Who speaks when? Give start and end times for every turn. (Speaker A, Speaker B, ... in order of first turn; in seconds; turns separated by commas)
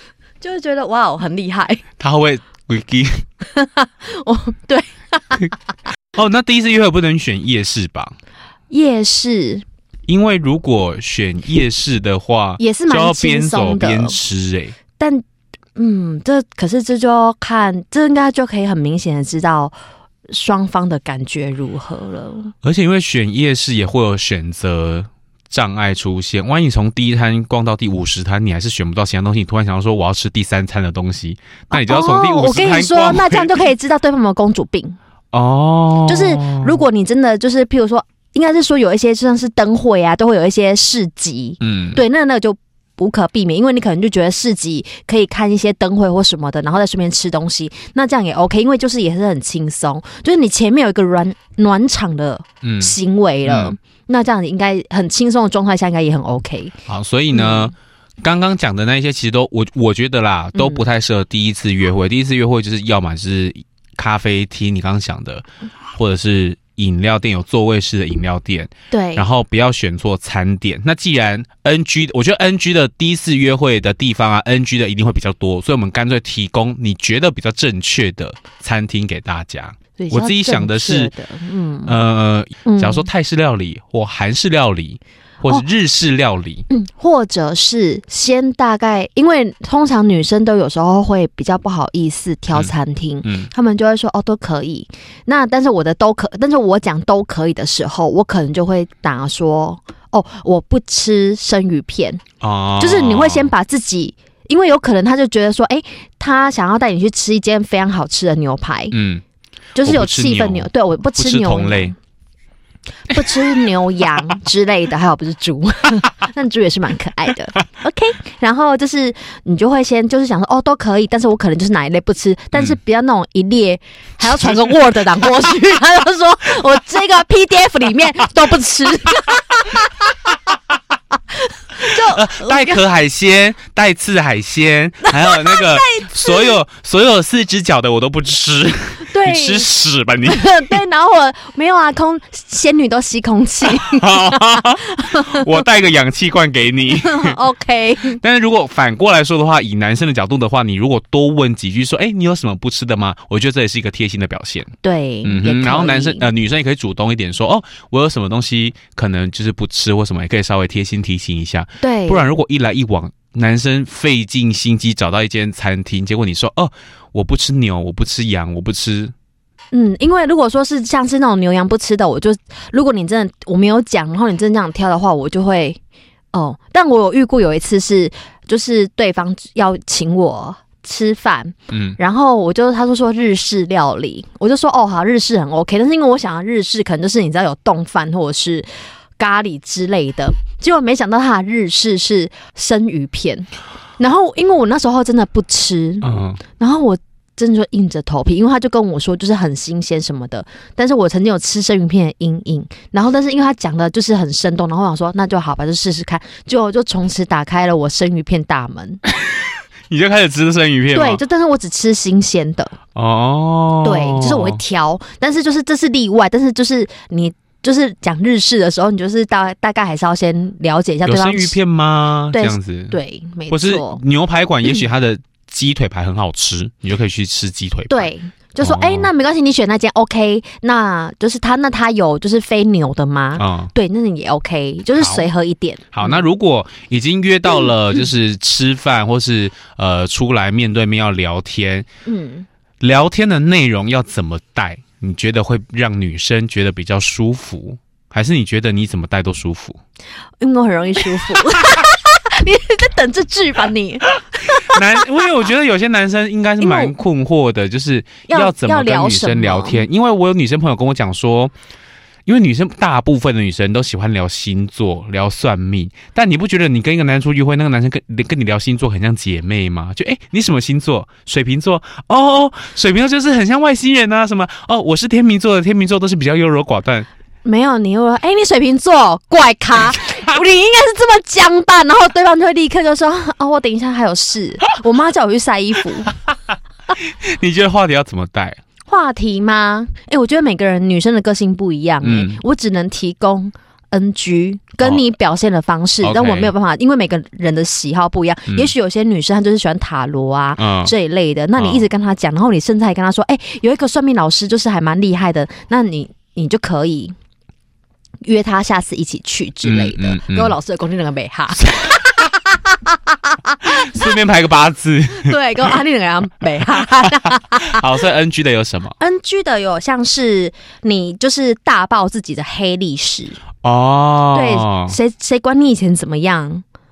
Speaker A: 0.4-1.8, Speaker B: 2.0-3.2, Speaker A: 3.4-5.5, Speaker B: 6.1-8.1, Speaker A: 8.7-9.6, Speaker B: 10.1-14.8, Speaker A: 12.6-14.2, Speaker A: 15.0-15.2, Speaker A: 15.8-19.7, Speaker A: 20.3-22.5, Speaker B: 22.6-33.6, Speaker A: 31.7-35.0, Speaker B: 35.3-36.8, Speaker A: 36.1-56.7, Speaker B: 41.6-42.0, Speaker B: 52.6-53.8, Speaker B: 56.9-81.1, Speaker A: 57.3-57.7, Speaker A: 60.5-60.8, Speaker A: 68.9-69.2, Speaker A: 80.0-82.0, Speaker B: 81.8-86.7, Speaker A: 82.7-83.1, Speaker A: 86.7-102.2, Speaker B: 93.2-93.5, Speaker B: 102.4-103.5, Speaker A: 102.8-109.0, Speaker B: 108.9-109.2, Speaker A: 109.8-111.9, Speaker B: 109.8-111.9, Speaker A: 113.1-130.2, Speaker B: 124.3-124.8, Speaker A: 131.3-132.8, Speaker B: 131.8-140.8, Speaker A: 135.2-136.6, Speaker A: 139.1-139.7, Speaker A: 140.2-145.6, Speaker B: 143.6-147.4, Speaker A: 146.9-148.2, Speaker B: 148.1-154.7, Speaker A: 154.8-156.3, Speaker B: 155.2-169.1, Speaker A: 161.8-162.2, Speaker A: 169.7-175.8, Speaker A: 176.3-209.0, Speaker B: 181.7-182.0, Speaker B: 196.0-196.4, Speaker B: 209.9-211.2, Speaker A: 210.9-212.8, Speaker B: 212.9-214.6, Speaker A: 213.8-221.6, Speaker B: 221.0-223.0, Speaker A: 222.3-224.0, Speaker B: 223.5-229.1, Speaker A: 227.9-236.2, Speaker B: 233.3-233.7, Speaker B: 234.9-235.3, Speaker B: 235.9-241.9, Speaker A: 242.1-242.5, Speaker B: 242.8-249.8, Speaker A: 250.4-255.0, Speaker B: 254.5-261.5, Speaker A: 256.6-256.9, Speaker A: 258.3-259.8, Speaker B: 262.2-277.1, Speaker A: 277.4-286.1, Speaker B: 286.9-288.6, Speaker A: 288.9-307.1, Speaker B: 292.0-292.4, Speaker B: 296.0-296.5, Speaker B: 300.6-300.9, Speaker B: 301.6-301.9, Speaker A: 308.2-314.1, Speaker B: 309.6-310.5, Speaker B: 311.6-312.0, Speaker B: 313.6-315.8, Speaker A: 315.1-317.8, Speaker B: 316.8-319.0, Speaker A: 319.0-323.4, Speaker B: 323.6-325.0, Speaker A: 324.3-326.6